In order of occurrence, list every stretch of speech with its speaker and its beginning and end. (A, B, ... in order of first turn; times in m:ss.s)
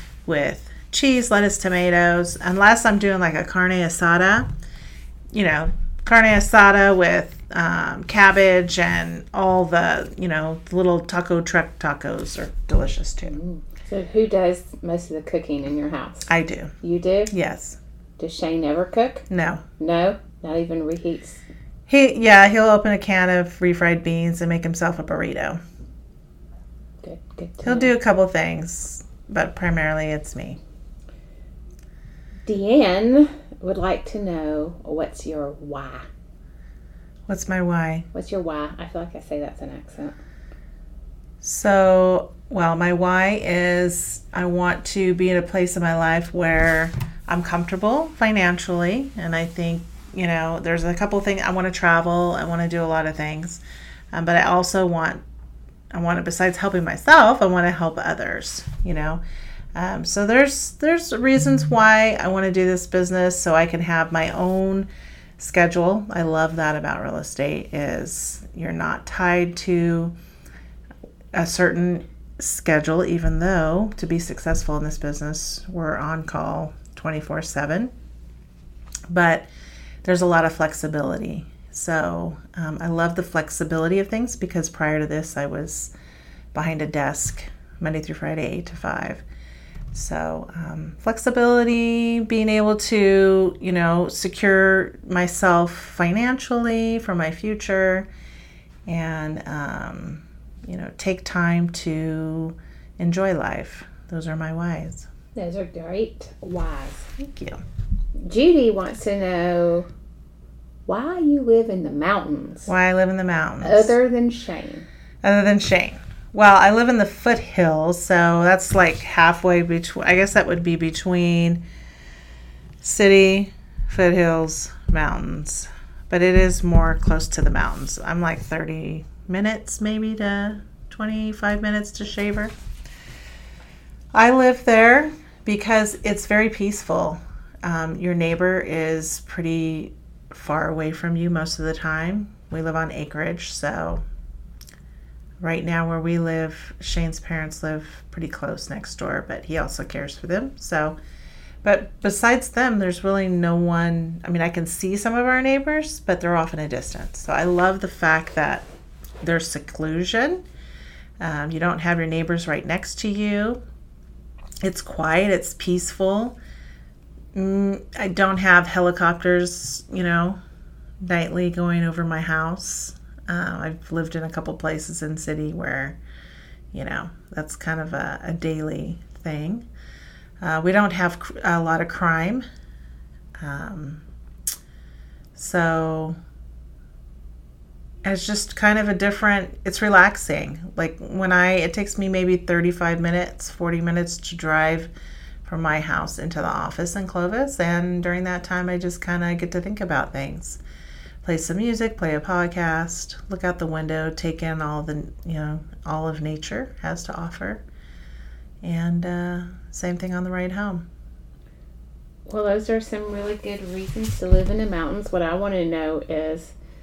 0:00.2-0:04.5 A
0:05.3-0:13.3 A
0:13.2-0:16.3 B
0:16.3-0:16.7 A
0:16.8-0:17.3 B
0:17.3-0:17.8 A
0:18.2-0:19.2 B
0:19.3-0:19.6 A
0:19.8-0:21.4 B
0:21.9-0:25.6 A
0:27.0-0:27.9 B
0:27.6-0:30.6 A
0:32.5-0:36.1 B
0:37.3-0:38.0 A
0:38.1-0:40.2 B
0:41.4-0:53.6 A
0:54.1-0:55.2 A
0:55.9-0:59.2 A
0:59.8-1:10.1 A
1:11.3-1:17.9 A
1:19.1-1:19.5 A
1:20.0-1:25.9 A
1:26.5-1:29.2 A
1:29.9-1:38.1 A
1:38.9-1:45.1 A
1:45.3-1:47.1 B
1:47.2-1:47.6 A
1:48.2-1:49.9 B
1:50.9-1:52.7 B
1:52.7-1:54.0 A
1:53.6-1:54.9 B
1:55.2-2:01.6 A
2:02.8-2:12.5 A
2:14.1-2:24.0 A
2:25.4-2:31.0 A
2:31.6-2:38.7 A
2:39.2-2:40.4 A
2:41.2-2:43.6 A
2:44.6-2:46.4 A
2:47.3-2:50.4 A
2:51.0-2:56.0 A
2:56.7-2:59.7 A
3:00.4-3:02.4 A
3:03.4-3:04.0 A
3:05.3-3:06.2 A
3:08.0-3:14.9 A
3:15.4-3:20.6 A
3:21.2-3:27.6 A
3:28.6-3:30.9 A
3:32.3-3:36.5 B